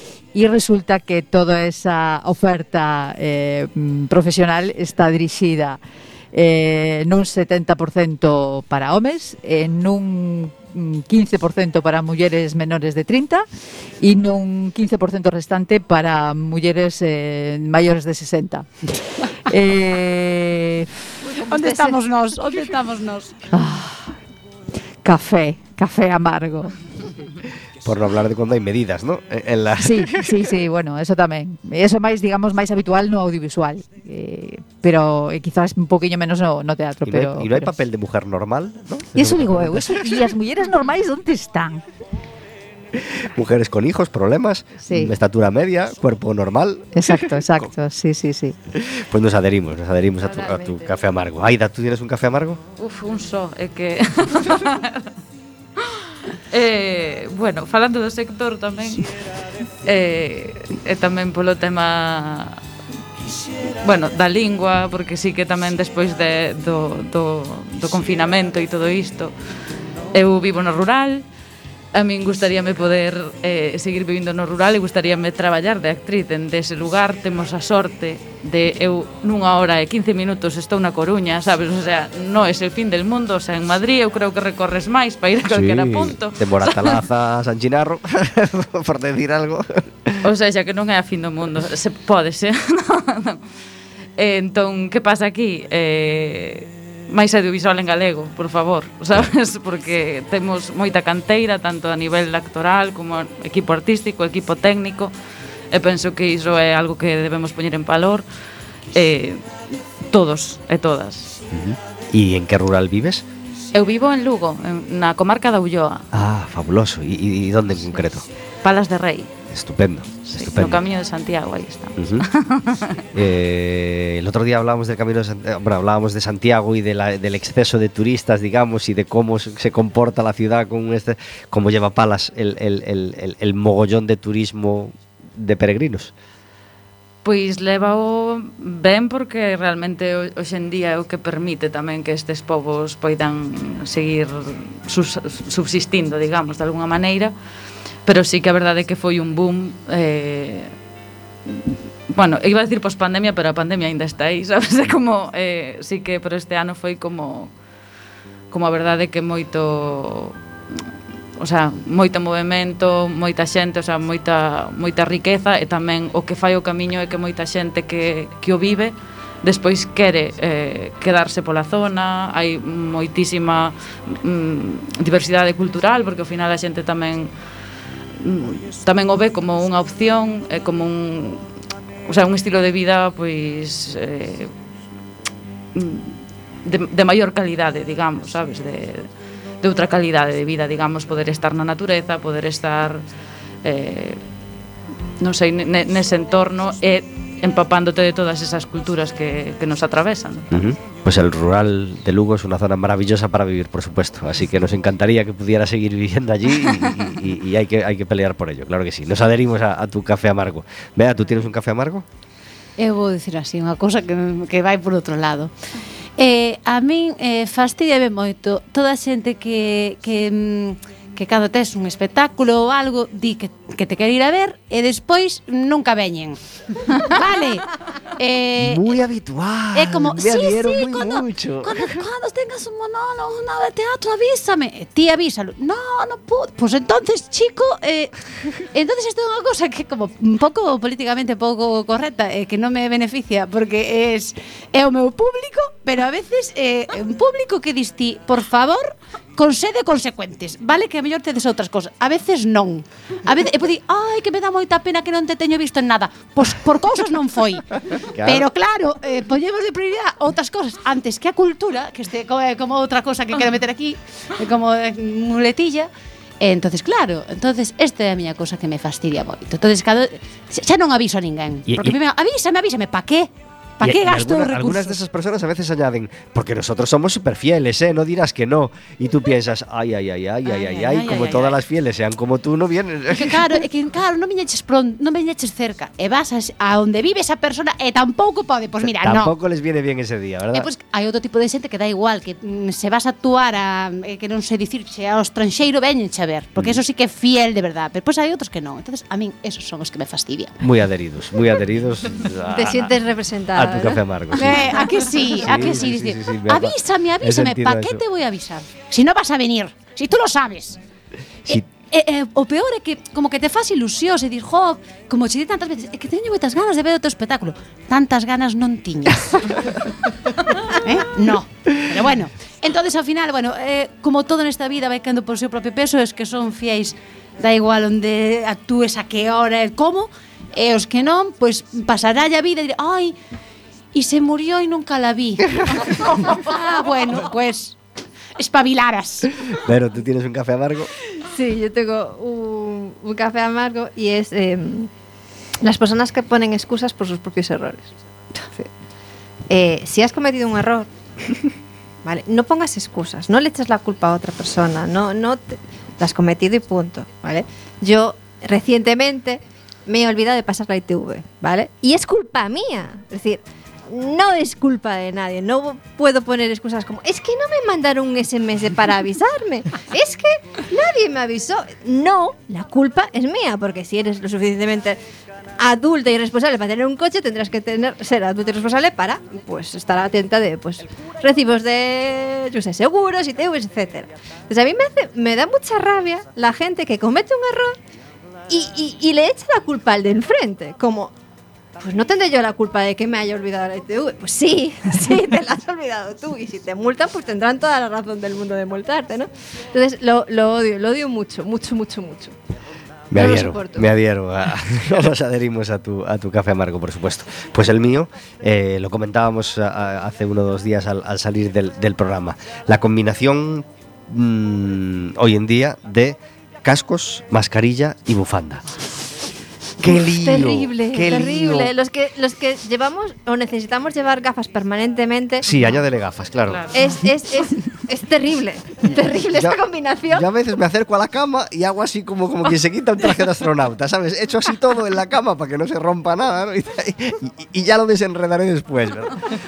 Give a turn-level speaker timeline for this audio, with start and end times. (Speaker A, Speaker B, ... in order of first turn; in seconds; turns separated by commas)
Speaker A: 0.3-5.8, Speaker A: 6.3-13.4, Speaker A: 14.0-18.9, Speaker A: 19.4-20.9, Speaker B: 21.4-23.4, Speaker A: 23.5-24.2, Speaker A: 25.0-26.8, Speaker C: 27.8-30.4, Speaker A: 29.8-37.7, Speaker C: 37.0-40.0, Speaker A: 39.1-41.8, Speaker C: 43.1-47.4, Speaker A: 44.8-45.1, Speaker A: 46.9-48.5, Speaker C: 48.7-52.6, Speaker B: 50.2-50.9, Speaker D: 52.8-55.1, Speaker D: 55.8-59.2, Speaker D: 59.8-62.6, Speaker D: 63.8-69.3, Speaker D: 70.1-71.2, Speaker D: 71.9-87.0, Speaker C: 85.5-90.2, Speaker D: 90.2-93.4, Speaker D: 94.2-105.1, Speaker D: 105.7-108.2, Speaker D: 108.9-111.3, Speaker C: 111.5-113.2, Speaker D: 113.7-116.0, Speaker C: 116.1-118.2, Speaker D: 118.6-119.3, Speaker C: 119.5-120.8, Speaker D: 120.2-123.0, Speaker C: 122.0-122.2, Speaker C: 123.1-136.1, Speaker D: 137.2-147.3, Speaker D: 148.0-150.7, Speaker D: 151.5-157.5, Speaker D: 158.5-160.4, Speaker D: 161.4-177.3, Speaker D: 178.2-181.4, Speaker D: 182.1-184.5, Speaker D: 185.7-193.0, Speaker D: 193.6-194.2, Speaker D: 195.2-200.6, Speaker C: 200.5-212.0, Speaker B: 212.8-215.5, Speaker B: 216.2-229.0, Speaker C: 228.6-232.0, Speaker B: 229.7-275.0, Speaker C: 258.1-258.5, Speaker C: 271.7-272.0, Speaker C: 273.8-283.5, Speaker B: 280.4-281.6, Speaker B: 283.1-289.3, Speaker C: 289.0-290.7, Speaker B: 290.5-300.6, Speaker C: 300.6-302.9, Speaker E: 302.5-305.3, Speaker C: 303.5-308.0, Speaker B: 304.3-310.8, Speaker B: 311.5-319.7, Speaker B: 320.7-333.1, Speaker B: 333.9-337.8, Speaker B: 338.4-339.3, Speaker C: 339.5-340.9, Speaker E: 341.3-344.9, Speaker E: 345.6-347.9, Speaker E: 349.5-351.5, Speaker E: 352.0-375.0, Speaker E: 375.6-387.8, Speaker E: 388.5-391.1, Speaker E: 391.8-402.4, Speaker C: 403.1-418.6, Speaker E: 403.1-403.9, Speaker C: 419.8-421.7, Speaker E: 419.8-425.4, Speaker C: 425.4-426.6, Speaker D: 426.5-426.8, Speaker E: 426.7-430.3, Speaker C: 430.1-439.2